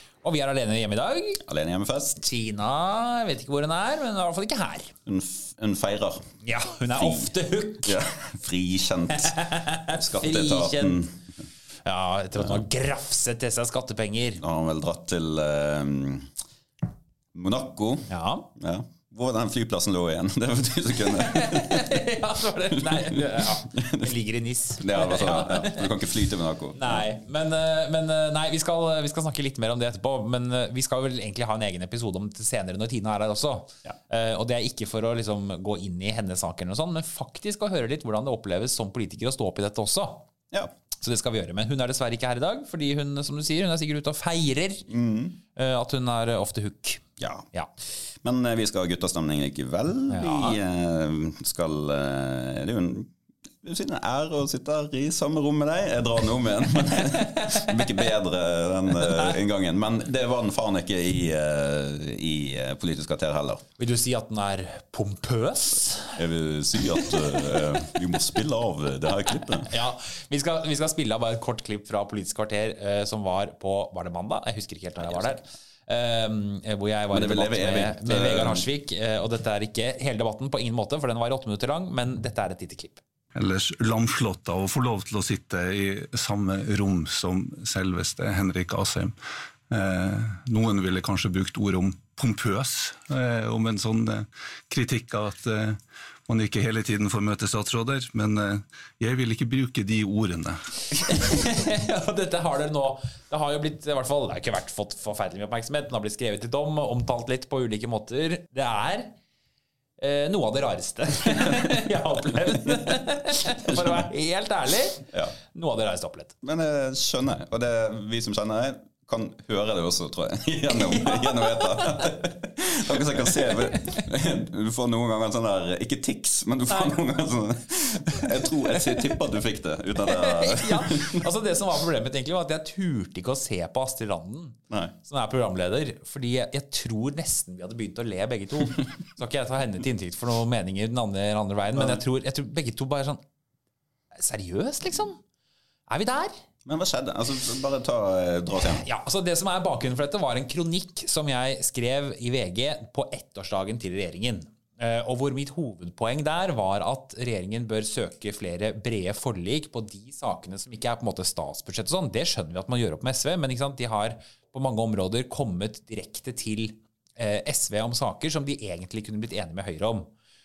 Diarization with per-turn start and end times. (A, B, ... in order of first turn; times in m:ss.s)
0:00.2-0:01.4 A
0:01.4-0:02.2 B
0:02.2-0:05.0 A
0:05.1-0:06.3 B
0:06.4-0:08.0 A
0:07.0-0:07.3 B
0:07.8-0:09.4 B
0:09.1-0:11.1 A
0:09.9-0:11.3 B
0:11.8-0:14.4 A
0:14.4-0:16.3 B
0:17.3-0:22.0 B
0:18.1-0:18.5 A
0:21.1-0:25.9 A
0:22.7-0:24.1 B
0:24.8-0:27.1 B
0:26.7-0:40.3 A
0:41.0-0:44.9 A
0:44.9-0:45.4 B
0:45.6-0:47.7 A
0:47.2-0:47.5 B
0:48.1-0:53.1 B
0:50.1-0:50.6 A
0:53.6-1:03.6 B
0:57.0-0:58.0 A
0:59.0-0:59.4 A
1:03.8-1:06.2 A
1:06.2-1:09.7 B
1:06.8-1:08.0 A
1:09.6-1:23.0 A
1:15.1-1:15.4 B
1:17.1-1:18.7 B
1:23.4-1:29.2 C
1:29.7-1:40.6 C
1:41.0-1:49.1 A
1:50.0-1:56.4 A
1:53.7-1:54.0 B
1:56.4-2:11.3 B
2:00.7-2:02.2 A
2:03.3-2:04.0 A
2:06.7-2:06.9 A
2:08.1-2:09.2 A
2:10.0-2:23.2 A
2:24.2-2:25.2 A
2:25.9-2:26.3 A
2:26.6-2:28.8 B
2:28.5-2:50.1 A